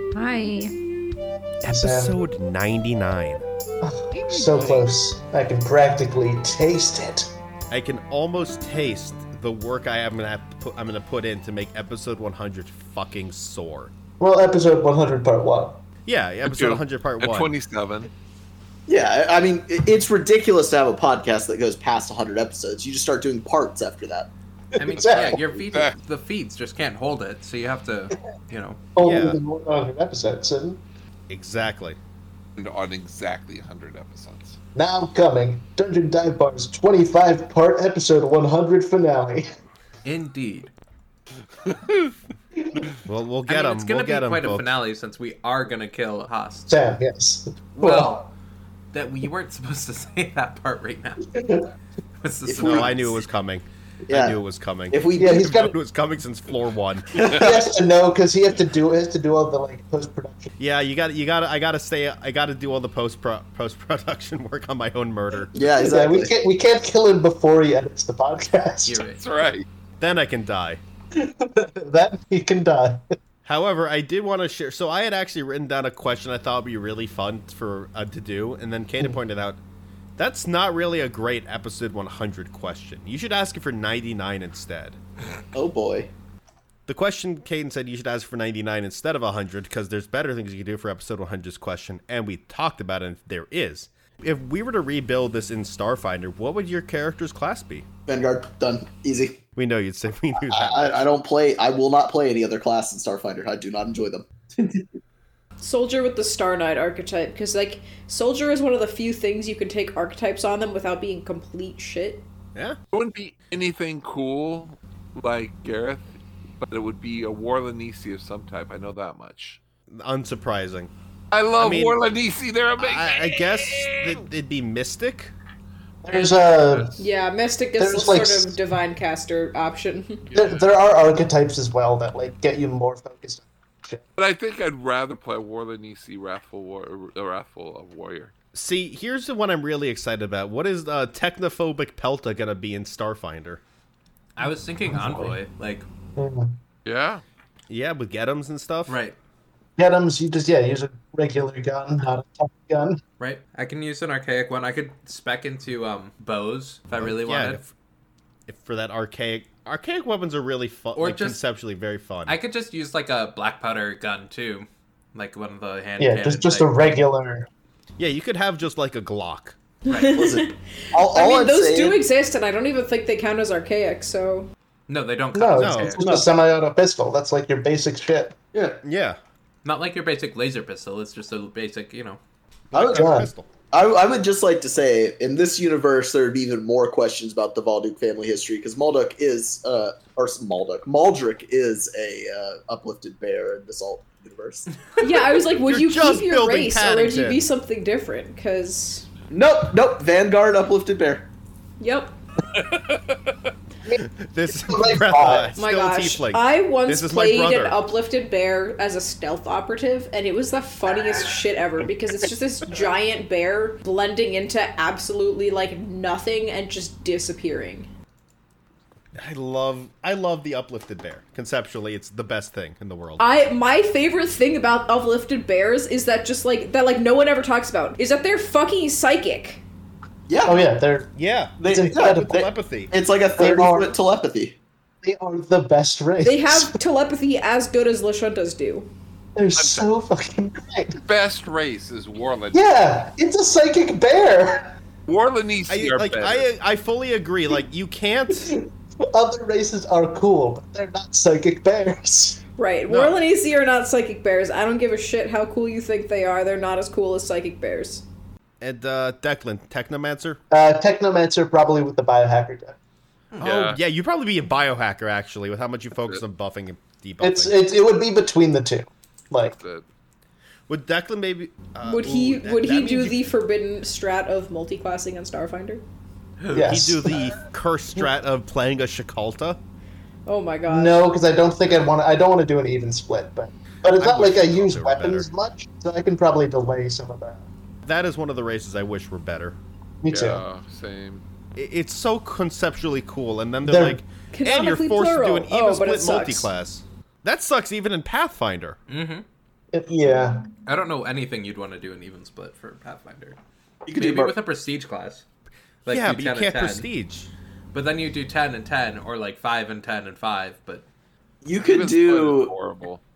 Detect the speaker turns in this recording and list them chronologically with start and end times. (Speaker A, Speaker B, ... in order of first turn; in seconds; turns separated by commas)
Speaker A: 0.1-0.7, Speaker B: 1.6-3.5, Speaker C: 1.6-2.2, Speaker C: 3.8-7.3, Speaker D: 4.2-4.9, Speaker B: 7.7-13.9, Speaker C: 14.2-15.8, Speaker B: 16.1-17.5, Speaker D: 16.4-18.1, Speaker E: 18.9-24.3, Speaker C: 24.8-25.4, Speaker F: 24.8-28.8, Speaker D: 25.0-26.0, Speaker C: 29.0-30.8, Speaker B: 29.0-29.4, Speaker B: 31.3-32.0, Speaker D: 32.6-34.6, Speaker C: 34.8-39.5, Speaker F: 40.0-40.7, Speaker D: 41.6-42.1, Speaker B: 43.0-44.7, Speaker F: 43.5-46.7, Speaker C: 46.7-48.2, Speaker F: 47.8-48.3, Speaker F: 48.9-51.2, Speaker C: 51.3-51.7, Speaker F: 52.2-53.2, Speaker E: 52.5-53.1, Speaker B: 52.6-57.3, Speaker E: 54.1-54.4, Speaker E: 54.9-55.4, Speaker C: 55.2-55.7, Speaker E: 57.1-57.6, Speaker C: 57.3-60.5, Speaker B: 60.6-65.5, Speaker E: 65.5-66.3, Speaker C: 65.7-69.0, Speaker F: 68.8-69.2, Speaker D: 69.2-69.7, Speaker B: 70.0-70.8, Speaker C: 71.1-73.2, Speaker B: 73.5-79.6, Speaker B: 80.2-85.0, Speaker E: 85.5-86.1, Speaker B: 86.9-97.9, Speaker E: 98.1-99.4, Speaker B: 99.6-101.1, Speaker E: 100.4-104.8, Speaker A: 105.6-112.3, Speaker D: 112.9-116.1, Speaker D: 116.6-119.6, Speaker B: 119.9-120.9, Speaker D: 121.3-124.2, Speaker B: 121.6-122.0, Speaker B: 122.8-125.3, Speaker C: 126.0-127.0, Speaker D: 126.7-126.9, Speaker A: 127.0-130.2, Speaker C: 127.8-128.6, Speaker D: 130.3-130.7, Speaker C: 130.3-134.0, Speaker D: 134.2-138.3, Speaker B: 138.5-143.6, Speaker F: 144.4-145.9, Speaker C: 144.9-145.4, Speaker C: 146.2-146.5, Speaker D: 146.9-147.2, Speaker B: 147.7-149.0, Speaker F: 148.9-149.2, Speaker C: 149.8-153.0, Speaker F: 153.2-157.6, Speaker B: 157.0-157.7, Speaker B: 158.5-162.4, Speaker F: 161.0-161.4, Speaker F: 162.3-166.9, Speaker C: 166.0-167.5, Speaker B: 168.0-169.6, Speaker A: 169.9-174.5, Speaker F: 169.9-170.1, Speaker E: 170.1-172.0, Speaker F: 174.9-176.2, Speaker C: 175.3-178.5, Speaker B: 175.6-176.0, Speaker E: 176.0-176.3, Speaker B: 178.8-179.2, Speaker F: 179.6-182.2, Speaker B: 182.7-183.5, Speaker E: 182.7-183.1, Speaker C: 182.9-183.3, Speaker E: 183.7-194.7, Speaker A: 195.0-199.1, Speaker B: 195.7-197.4, Speaker E: 199.3-201.3, Speaker A: 201.8-202.2, Speaker D: 202.5-203.3, Speaker C: 203.8-205.6, Speaker B: 204.0-207.9, Speaker A: 205.6-217.9, Speaker B: 219.2-223.2, Speaker A: 223.2-229.6, Speaker E: 230.3-230.7, Speaker C: 230.4-232.5, Speaker B: 231.2-232.9, Speaker E: 231.6-234.6, Speaker C: 233.4-233.9, Speaker C: 235.0-236.7, Speaker A: 236.2-238.9, Speaker C: 239.4-241.0, Speaker D: 239.6-239.9, Speaker D: 241.0-242.8, Speaker C: 242.5-244.7, Speaker D: 245.1-246.5, Speaker B: 245.7-248.5, Speaker C: 248.5-252.4, Speaker A: 252.6-258.1, Speaker B: 252.9-253.2, Speaker B: 258.6-260.4, Speaker C: 260.5-262.8, Speaker B: 263.4-267.6, Speaker D: 263.4-263.8, Speaker C: 267.2-269.6, Speaker D: 269.4-269.8, Speaker B: 270.7-273.3, Speaker A: 271.9-275.8, Speaker F: 276.4-276.8, Speaker C: 276.5-277.2, Speaker B: 276.6-279.6, Speaker A: 280.3-281.1, Speaker C: 280.7-287.5, Speaker B: 283.9-285.3, Speaker B: 287.9-289.6, Speaker C: 290.0-290.4, Speaker D: 290.1-291.2, Speaker B: 291.6-298.8, Speaker C: 293.6-294.0, Speaker A: 294.3-296.5, Speaker F: 298.9-299.2, Speaker C: 299.7-300.5, Speaker F: 300.7-303.4, Speaker E: 303.9-304.4, Speaker F: 304.0-305.2, Speaker F: 305.9-306.9, Speaker B: 305.9-307.3, Speaker F: 307.7-310.9, Speaker E: 311.4-312.5, Speaker D: 311.6-313.0